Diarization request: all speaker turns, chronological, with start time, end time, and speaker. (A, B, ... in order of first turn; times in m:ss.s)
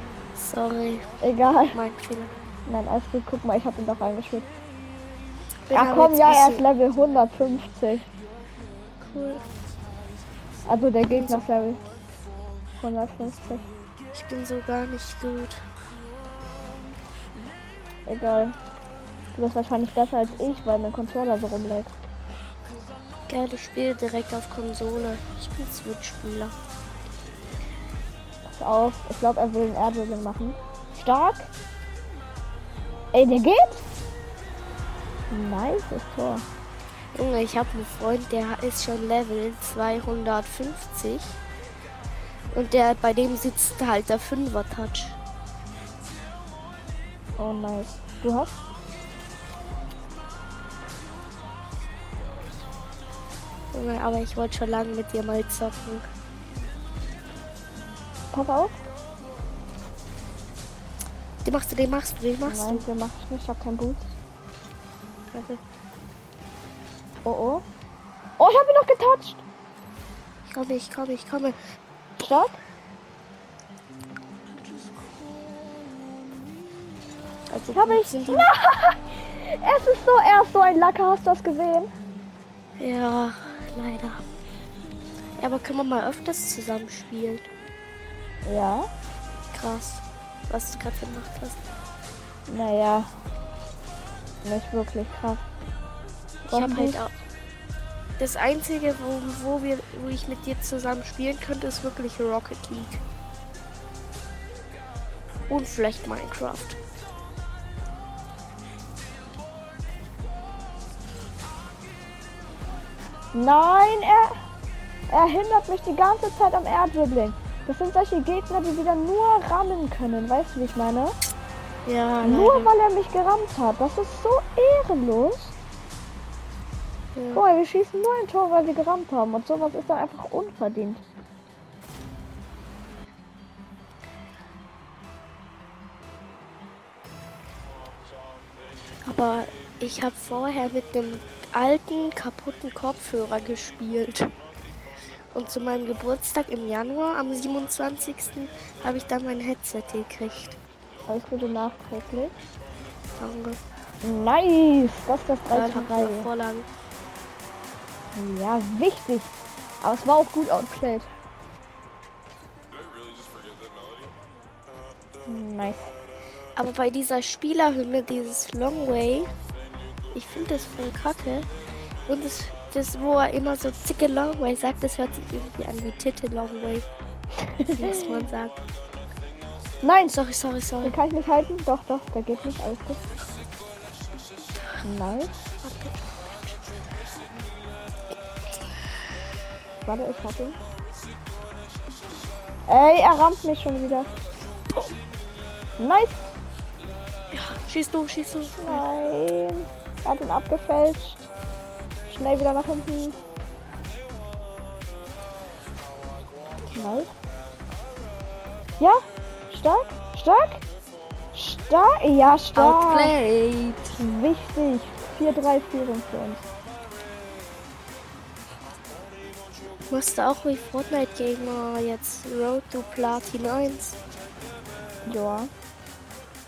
0:00.3-0:01.0 A
0:01.2-0:01.8 B
0:01.7-0:02.4 A
0:02.7-0:04.5 B
0:05.7-0:06.6 A
0:05.7-0:08.0 B
0:09.0-0:09.4 A
0:10.7-0:11.8 B
0:11.0-0:11.4 A
0:12.8-0:13.6 B
0:14.1-0:15.6 A
0:18.0-0:18.6 B
0:19.3-0:21.9 B
0:23.3-0:26.5 A
0:28.5-0:31.5 B
0:33.1-0:33.8 B
0:35.3-0:36.4 B
0:37.1-0:41.4 A
0:42.5-0:45.2 A
0:47.4-0:48.6 B
0:53.7-0:56.1 A
0:58.3-0:58.8 B
1:01.4-1:02.8 A
1:02.4-1:04.2 B
1:05.3-1:05.6 A
1:07.2-1:07.6 B
1:08.4-1:09.4 B
1:10.5-1:11.6 A
1:12.2-1:12.6 B
1:17.5-1:18.5 A
1:17.7-1:21.9 B
1:22.8-1:24.2 A
1:25.4-1:27.5 A
1:28.4-1:28.9 B
1:29.5-1:31.6 A
1:32.5-1:33.1 B
1:34.4-1:35.4 B
1:36.4-1:37.1 A
1:36.5-1:37.2 B
1:38.2-1:43.0 A
1:45.5-1:46.8 A
1:53.3-1:54.4 B
1:55.1-2:01.2 B
2:01.8-2:02.7 A
2:02.2-2:05.5 B
2:07.1-2:07.4 A
2:07.3-2:11.0 B
2:19.0-2:24.3 A
2:25.3-2:30.6 A
2:31.1-2:32.3 B
2:33.2-2:33.6 A
2:34.0-2:36.3 B
2:35.5-2:36.7 A
2:38.1-2:41.1 B
2:45.2-2:45.9 B
2:46.6-2:49.3 A
2:50.1-2:51.5 A
2:52.1-2:56.9 A
2:57.7-2:58.6 A
2:59.8-3:00.2 B
3:00.1-3:01.0 A
3:00.8-3:03.0 B
3:04.8-3:05.3 B
3:05.6-3:06.7 A
3:09.8-3:10.6 B
3:12.7-3:14.1 B
3:15.8-3:16.3 B
3:17.3-3:18.8 A
3:18.6-3:21.3 B
3:22.1-3:23.2 B
3:26.7-3:27.1 B
3:28.8-3:30.6 B
3:31.3-3:33.2 B
3:32.5-3:34.0 A
3:34.0-3:36.5 B
3:39.9-3:44.0 A
3:45.0-3:45.5 B